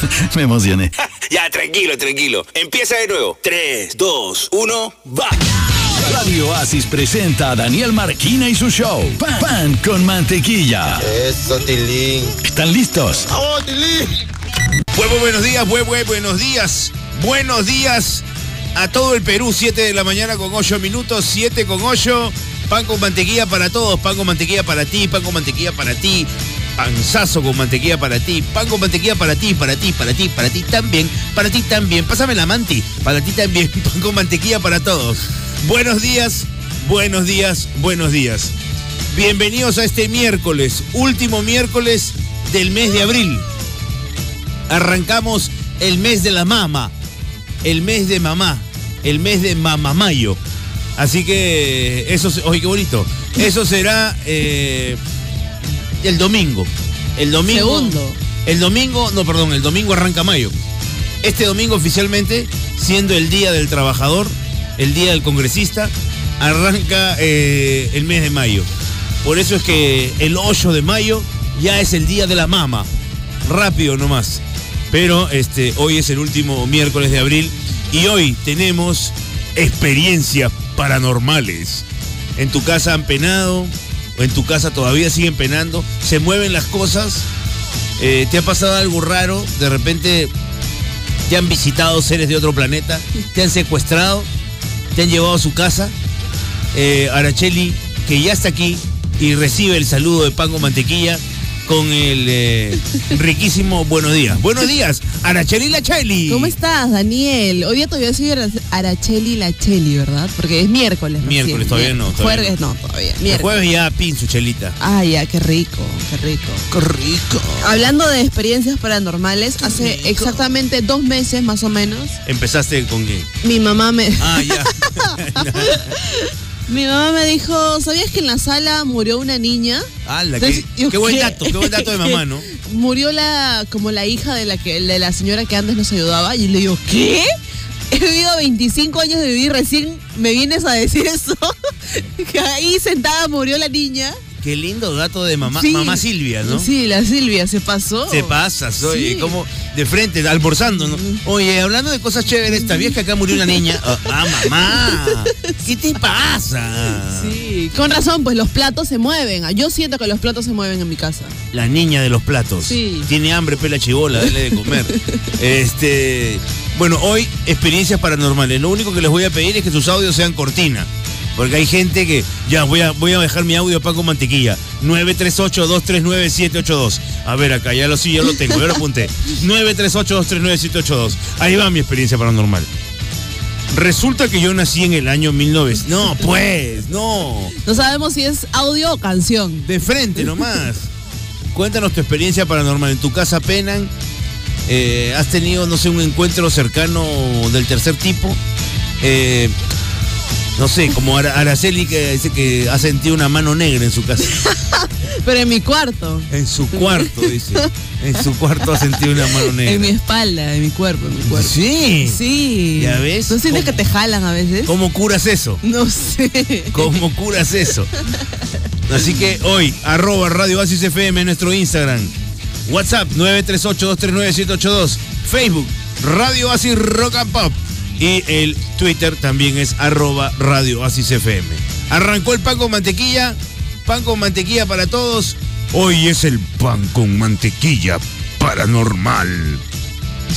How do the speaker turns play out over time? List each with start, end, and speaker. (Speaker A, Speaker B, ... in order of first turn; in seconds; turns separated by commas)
Speaker A: 0.3-0.9, Speaker B: 1.3-5.2, Speaker A: 6.0-11.1, Speaker A: 12.4-13.3, Speaker C: 14.9-38.5, Speaker C: 39.1-43.5, Speaker C: 44.7-46.9, Speaker C: 47.6-50.4, Speaker C: 51.0-55.0, Speaker C: 56.0-60.6, Speaker D: 57.5-58.2, Speaker C: 61.2-68.7, Speaker C: 69.2-72.9, Speaker C: 73.4-81.8, Speaker C: 82.4-87.2, Speaker C: 88.0-90.3, Speaker C: 91.3-94.3, Speaker C: 94.9-95.9, Speaker C: 96.7-106.5, Speaker D: 106.3-113.5, Speaker C: 111.2-112.5, Speaker C: 113.2-114.8, Speaker D: 114.8-116.7, Speaker C: 116.7-117.7, Speaker D: 117.6-122.1, Speaker C: 119.7-120.3, Speaker C: 122.2-123.3, Speaker D: 123.4-137.3, Speaker C: 124.2-126.0, Speaker C: 130.1-132.4, Speaker D: 137.9-144.2, Speaker C: 144.4-146.7, Speaker D: 145.5-149.3, Speaker C: 148.1-157.3, Speaker D: 150.9-151.2, Speaker D: 157.1-161.3, Speaker C: 161.5-182.7, Speaker D: 162.6-163.1, Speaker C: 183.7-187.6, Speaker D: 187.6-189.6, Speaker C: 189.6-190.9, Speaker C: 191.5-193.9, Speaker C: 194.7-198.4, Speaker C: 199.0-199.5, Speaker C: 200.6-204.4, Speaker D: 204.3-207.7, Speaker C: 206.3-209.9, Speaker D: 208.8-211.5, Speaker C: 211.3-212.2, Speaker D: 212.1-214.7, Speaker C: 212.8-213.8, Speaker C: 214.6-215.6, Speaker D: 215.6-216.9, Speaker C: 216.7-217.9, Speaker C: 218.9-222.1, Speaker C: 222.7-239.6